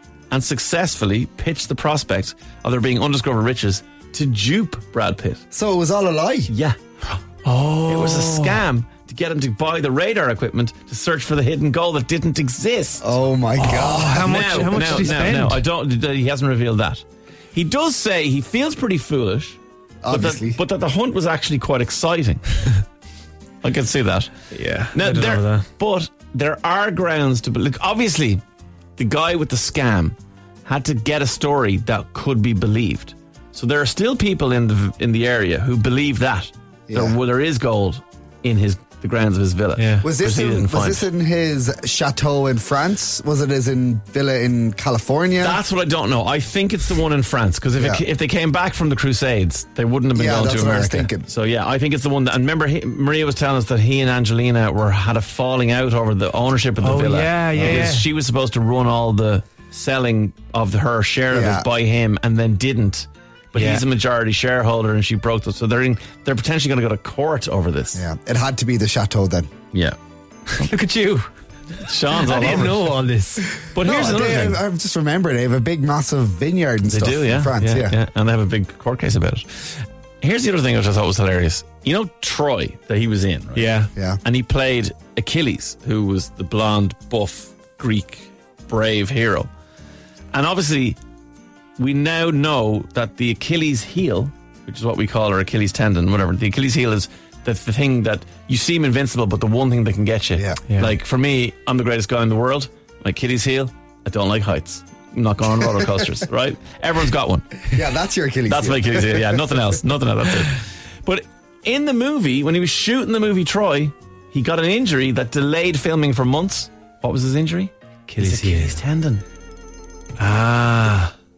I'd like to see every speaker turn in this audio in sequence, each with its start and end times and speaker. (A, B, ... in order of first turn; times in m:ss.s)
0:00.3-0:05.4 A
0:05.5-0:06.5 B
0:06.5-0:06.8 A
0:07.4-0:08.6 C
0:07.8-0:13.2 A
0:13.0-0:15.1 B
0:13.6-0:15.6 C
0:14.2-0:22.5 A
0:20.0-0:20.6 B
0:23.6-0:24.4 A
0:24.5-0:25.7 C
0:24.9-0:28.4 A
0:29.0-0:41.1 A
0:36.9-0:37.2 B
0:39.8-0:40.1 C
0:40.0-0:45.6 B
0:45.4-1:08.0 A
0:47.8-0:48.0 B
0:50.1-0:51.3 B
0:56.8-0:58.1 C
1:01.3-1:01.7 B
1:03.5-1:03.8 C
1:07.9-1:09.5 B
1:10.6-1:11.2 C
1:11.8-1:12.9 A
1:12.2-1:13.6 C
1:13.7-1:14.6 A
1:13.8-1:18.0 B
1:16.9-1:29.5 A
1:23.6-1:23.9 C
1:23.9-1:24.2 B
1:30.3-1:31.0 A
1:31.8-1:47.8 A
1:47.7-1:49.6 B
1:48.5-1:59.2 A
1:58.1-1:58.8 C
2:00.2-2:01.1 A